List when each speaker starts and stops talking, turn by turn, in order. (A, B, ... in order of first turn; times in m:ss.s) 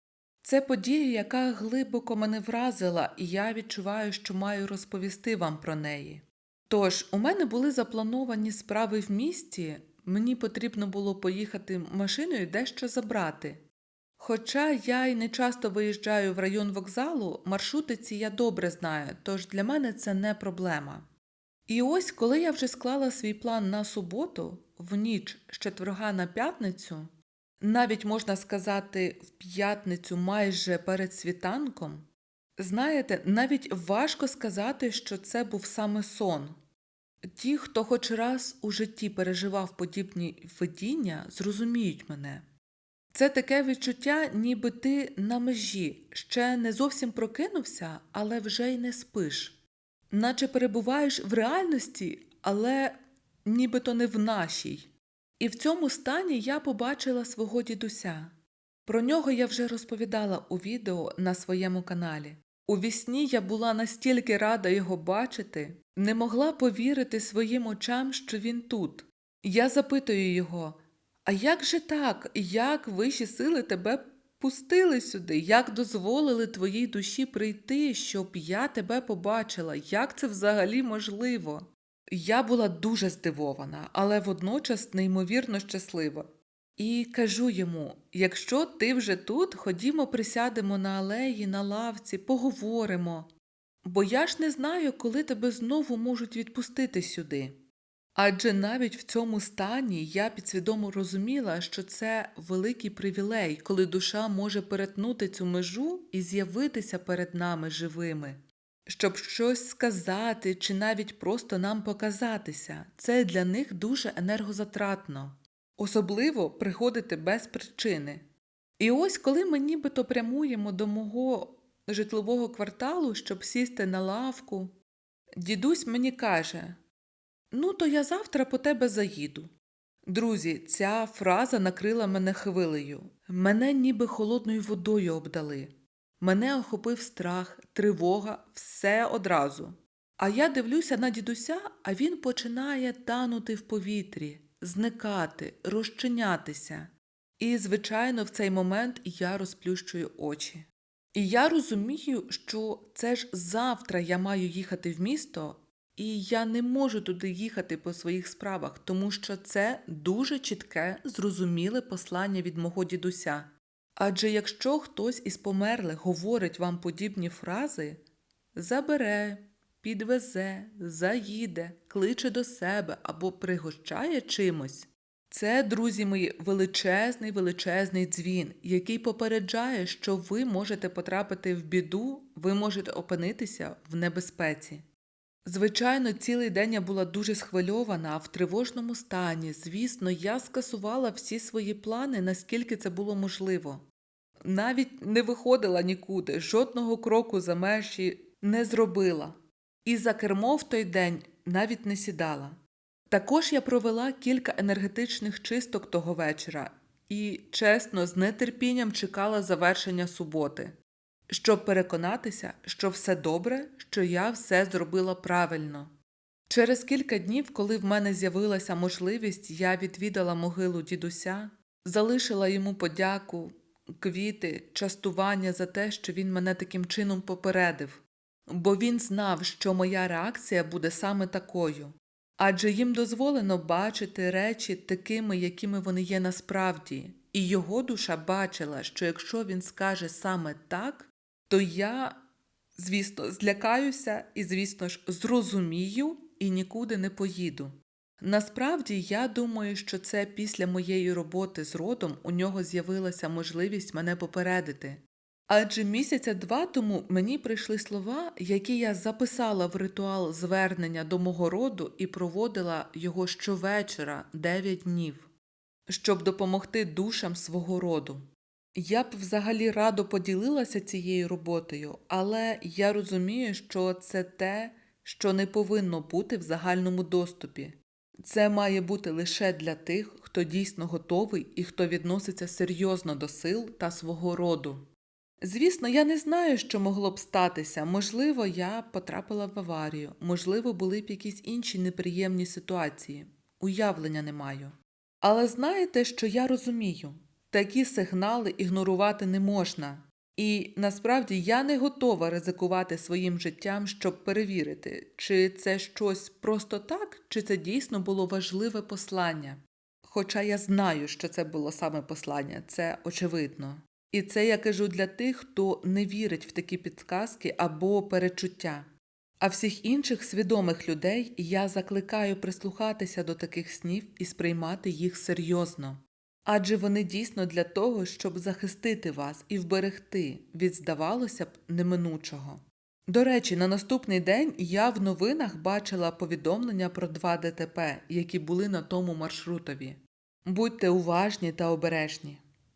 0:00.4-0:13.6 A
0:14.2-0:21.1 A
0:21.7-0:27.1 A
0:27.6-0:32.1 A
0:32.6-0:36.6 A
0:37.3-0:42.4 A
0:43.1-0:49.6 A
0:50.1-0:58.3 A
0:58.8-1:33.3 A
1:33.8-1:37.6 A
1:38.2-1:58.3 A
1:58.8-2:04.7 A
2:05.4-2:06.8 A
2:07.5-2:09.5 A
2:10.1-2:48.0 A
2:48.5-3:04.8 A
3:05.4-3:13.8 A
3:14.4-3:22.6 A
3:23.1-3:30.8 A
3:31.3-3:35.9 A
3:36.5-4:02.2 A
4:02.8-4:25.3 A
4:25.9-4:28.2 A
4:28.8-4:44.9 A
4:45.4-5:18.8 A
5:19.4-5:42.4 A